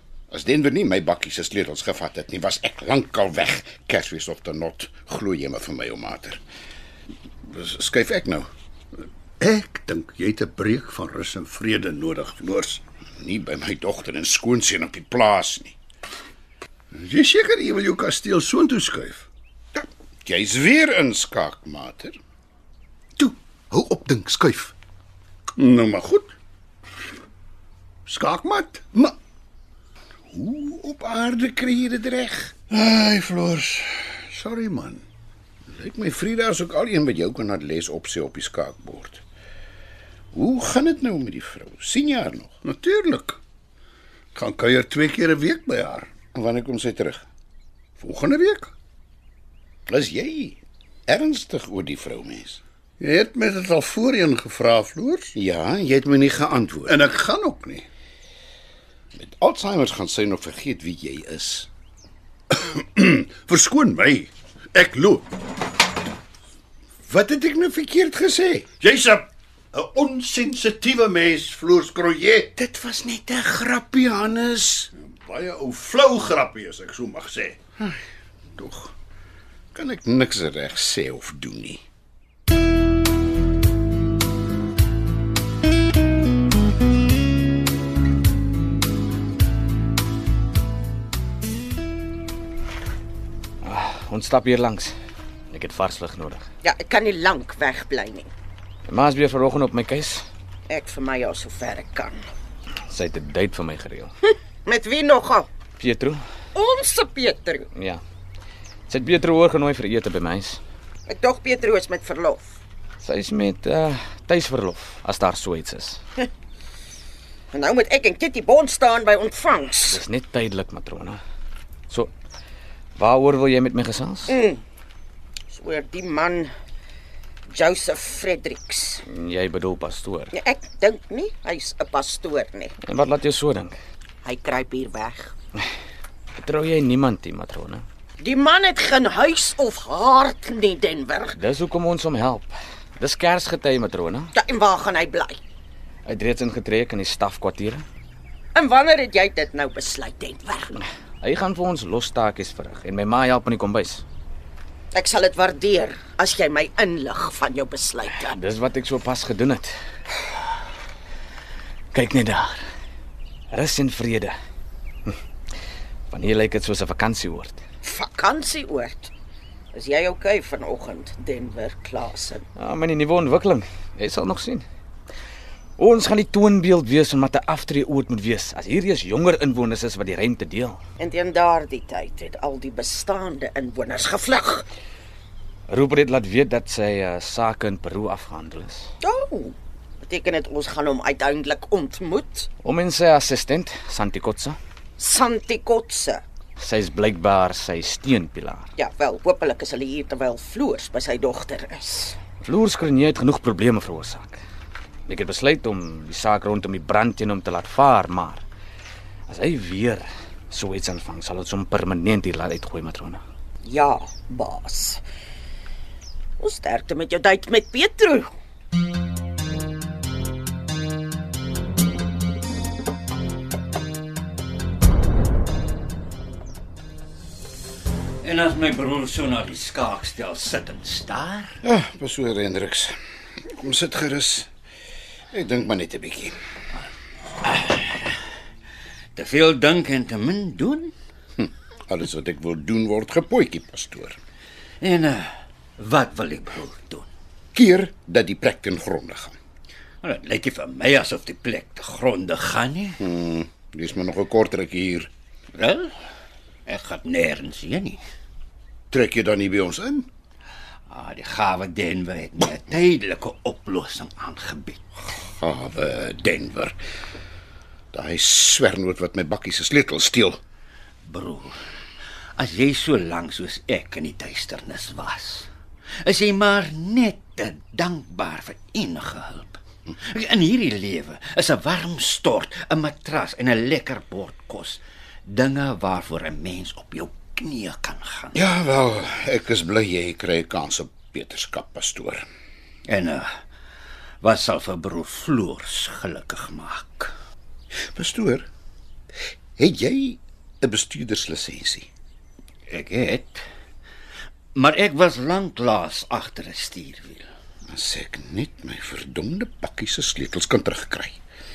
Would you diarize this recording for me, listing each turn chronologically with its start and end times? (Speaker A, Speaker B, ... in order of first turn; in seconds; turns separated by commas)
Speaker A: 0.3-6.4, Speaker A: 7.5-8.5, Speaker B: 9.4-12.8, Speaker A: 13.2-15.8, Speaker B: 16.9-19.3, Speaker A: 19.7-22.2, Speaker A: 23.2-24.7, Speaker B: 25.6-26.3, Speaker B: 28.1-28.9, Speaker A: 30.3-32.5, Speaker B: 32.7-35.0, Speaker A: 35.7-39.2, Speaker A: 40.3-42.5, Speaker B: 42.6-43.4, Speaker B: 44.4-46.1, Speaker A: 46.3-47.2, Speaker B: 48.0-48.7, Speaker A: 49.9-52.6, Speaker B: 53.0-55.3, Speaker A: 55.4-57.0, Speaker B: 56.9-57.9, Speaker A: 59.1-61.7, Speaker B: 62.5-65.2, Speaker A: 67.1-68.7, Speaker B: 68.8-72.5, Speaker A: 72.6-74.9, Speaker B: 75.0-77.6, Speaker A: 78.6-78.9, Speaker A: 79.7-81.8, Speaker C: 93.6-94.9, Speaker C: 95.5-96.4, Speaker D: 96.6-98.3, Speaker C: 98.9-100.2, Speaker D: 100.7-102.2, Speaker C: 102.9-104.1, Speaker D: 104.7-105.5, Speaker C: 105.8-106.2, Speaker D: 106.5-107.7, Speaker C: 107.8-108.0, Speaker C: 108.9-110.6, Speaker D: 111.1-112.6, Speaker C: 113.0-116.0, Speaker D: 117.5-120.0, Speaker C: 119.9-121.2, Speaker C: 123.0-124.3, Speaker D: 124.3-124.6, Speaker D: 125.5-126.5, Speaker D: 127.5-129.0, Speaker C: 129.1-130.3, Speaker D: 130.3-132.7, Speaker C: 132.8-133.8, Speaker D: 134.2-135.3, Speaker C: 136.4-137.8, Speaker D: 138.2-141.4, Speaker C: 141.3-144.3, Speaker D: 144.3-145.4, Speaker C: 146.1-147.8, Speaker D: 148.6-150.8, Speaker C: 151.2-154.0, Speaker D: 154.9-158.4, Speaker C: 158.3-159.7, Speaker C: 161.9-162.6, Speaker C: 163.5-164.3, Speaker C: 166.1-167.6, Speaker D: 167.8-169.1, Speaker D: 169.7-172.4, Speaker C: 172.6-174.7, Speaker C: 175.8-180.8, Speaker D: 181.0-184.7, Speaker C: 185.7-188.9, Speaker D: 189.0-192.5, Speaker C: 192.6-194.6, Speaker D: 195.0-196.2, Speaker C: 196.6-198.7, Speaker D: 198.8-202.2, Speaker C: 202.4-204.4, Speaker C: 205.1-208.4, Speaker C: 209.3-213.2, Speaker D: 213.7-215.0, Speaker D: 216.4-218.3, Speaker E: 228.2-231.6, Speaker A: 231.6-234.5, Speaker A: 235.3-236.4, Speaker E: 237.4-238.1, Speaker E: 239.2-240.9, Speaker A: 241.4-244.2, Speaker E: 244.8-247.1, Speaker A: 247.5-249.4, Speaker E: 250.0-253.0, Speaker A: 253.0-255.1, Speaker E: 255.5-255.9, Speaker E: 256.7-258.0, Speaker A: 258.9-260.1, Speaker E: 260.9-264.8, Speaker A: 265.3-266.8, Speaker A: 267.9-270.4, Speaker E: 271.0-271.6, Speaker E: 272.4-275.5, Speaker E: 276.0-288.4, Speaker A: 288.3-292.3, Speaker E: 292.9-293.3, Speaker E: 294.2-297.1, Speaker A: 297.9-298.5, Speaker A: 299.6-301.9, Speaker E: 302.7-303.4, Speaker E: 304.6-307.3, Speaker A: 307.7-311.2